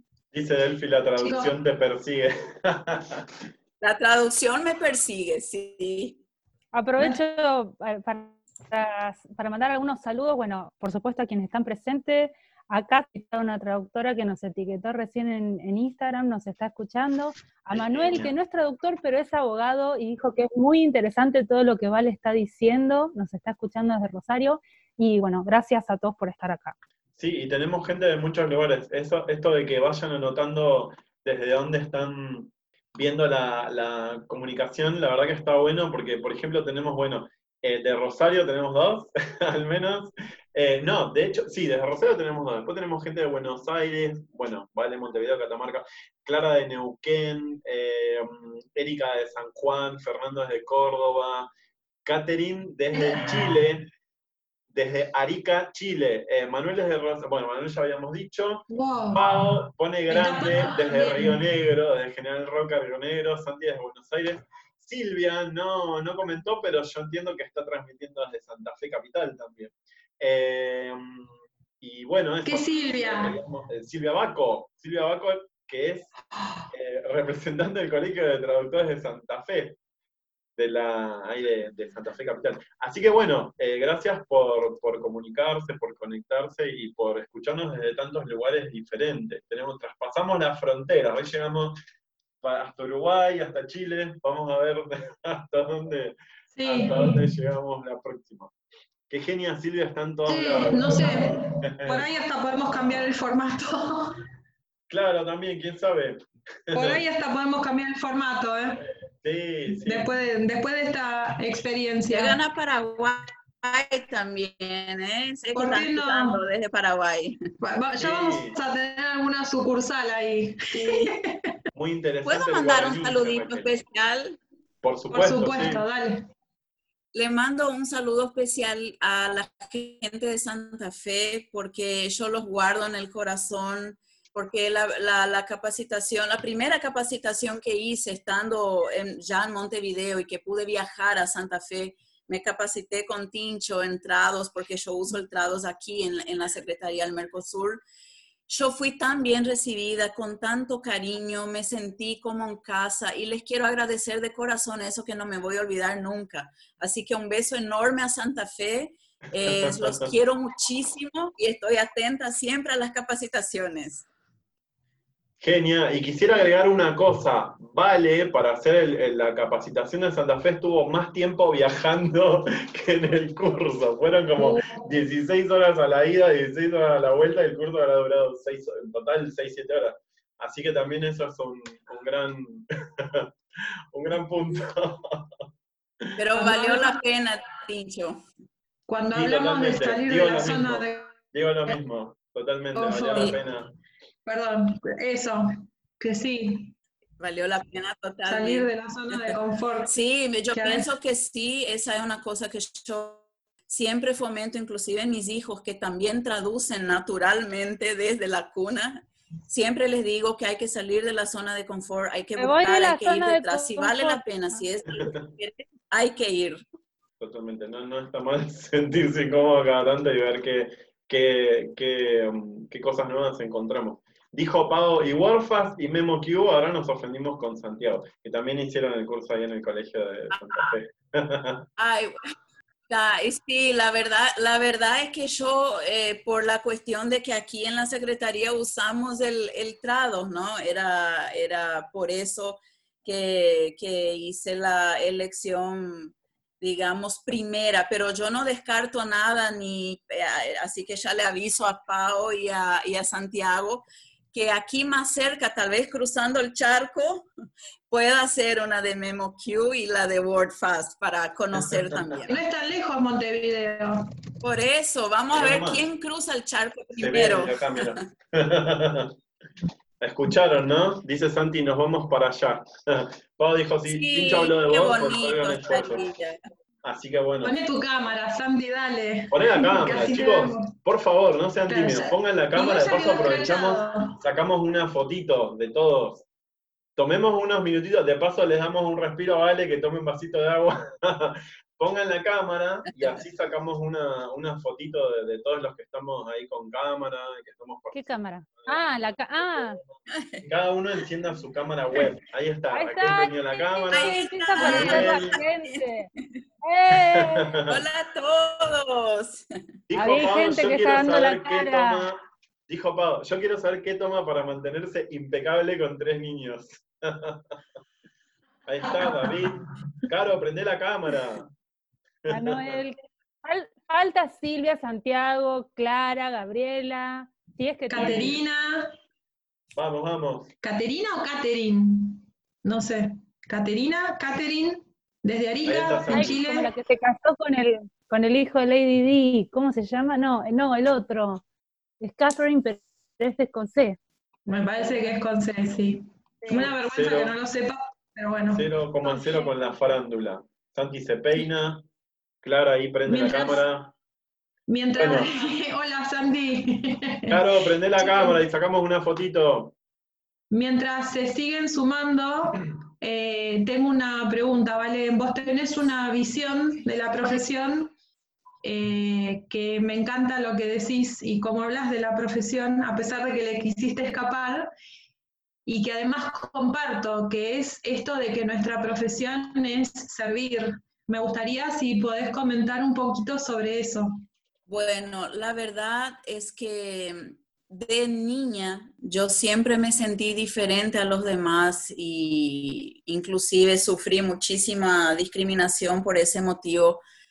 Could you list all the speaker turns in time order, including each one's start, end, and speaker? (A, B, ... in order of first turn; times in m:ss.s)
0:00.3-0:03.3 A
0:01.2-0:01.5 B
0:03.8-0:06.2 C
0:06.7-0:26.8 D
0:17.7-0:18.3 A
0:27.2-0:51.5 A
0:52.0-0:53.9 A
0:52.9-0:53.5 B
0:54.7-1:16.1 A
0:58.7-0:59.4 B
1:00.1-1:01.4 B
1:12.4-1:13.4 B
1:16.7-1:19.8 A
1:20.6-1:31.8 A
1:32.4-1:38.5 A
1:36.5-1:37.2 B
1:39.1-1:42.1 A
1:40.2-1:44.2 B
1:44.9-1:47.0 A
1:46.7-1:48.9 B
1:49.2-1:50.1 A
1:49.8-1:52.4 B
1:52.1-1:57.4 C
1:55.5-1:56.4 B
1:57.6-2:01.6 B
1:58.0-1:58.6 A
2:00.7-2:01.1 C
2:01.7-2:03.7 A
2:02.2-2:04.4 C
2:04.8-2:05.8 A
2:05.1-2:06.3 B
2:07.1-2:27.8 C
2:28.5-2:44.0 C
2:39.4-2:40.0 A
2:45.4-3:03.3 A
2:54.4-2:54.9 B
3:03.9-3:05.4 A
3:06.2-3:08.2 C
3:06.3-3:07.0 B
3:08.9-3:11.2 B
3:09.1-3:13.7 A
3:12.7-3:13.4 B
3:14.2-3:16.7 B
3:17.2-3:36.6 C
3:18.3-3:19.9 B
3:20.5-3:20.9 B
3:32.4-3:34.2 D
3:37.2-3:51.6 A
3:50.3-3:50.7 C
3:51.8-3:52.3 C
3:52.9-4:17.3 C
4:17.9-4:22.4 C
4:21.7-4:22.0 A
4:22.2-4:24.0 B
4:24.4-4:28.0 C
4:25.4-4:25.8 A
4:27.0-4:29.2 A
4:30.0-4:36.0 A
4:33.9-4:36.4 C
4:36.8-4:37.5 A
4:37.4-4:40.7 B
4:39.3-4:46.2 A
4:41.7-4:44.2 B
4:47.0-4:58.0 A
4:57.9-4:59.8 D
4:58.6-4:59.8 A
5:00.1-5:00.4 C
5:00.4-5:05.4 A
5:02.7-5:06.1 D
5:03.9-5:06.4 C
5:06.6-5:07.6 D
5:07.0-5:07.8 A
5:07.6-5:09.4 C
5:09.9-5:17.5 A
5:09.9-5:12.1 D
5:18.6-5:21.5 A
5:18.8-5:19.5 B
5:22.2-5:22.8 A
5:22.3-5:28.4 D
5:27.9-5:28.9 B
5:28.0-5:28.4 A
5:29.7-5:30.5 A
5:30.6-5:36.7 B
5:35.6-5:36.5 A
5:36.1-5:41.4 D
5:42.0-5:44.0 D
5:44.4-5:49.3 B
5:46.5-5:47.4 A
5:48.5-5:51.8 A
5:52.4-5:53.9 A
5:53.0-5:53.6 B
5:54.7-5:57.4 B
5:55.0-5:55.3 A
5:57.3-5:59.7 A
5:57.9-5:58.4 B
6:00.5-6:07.9 B
6:08.6-6:14.7 B
6:15.6-6:24.2 B
6:24.7-6:37.0 C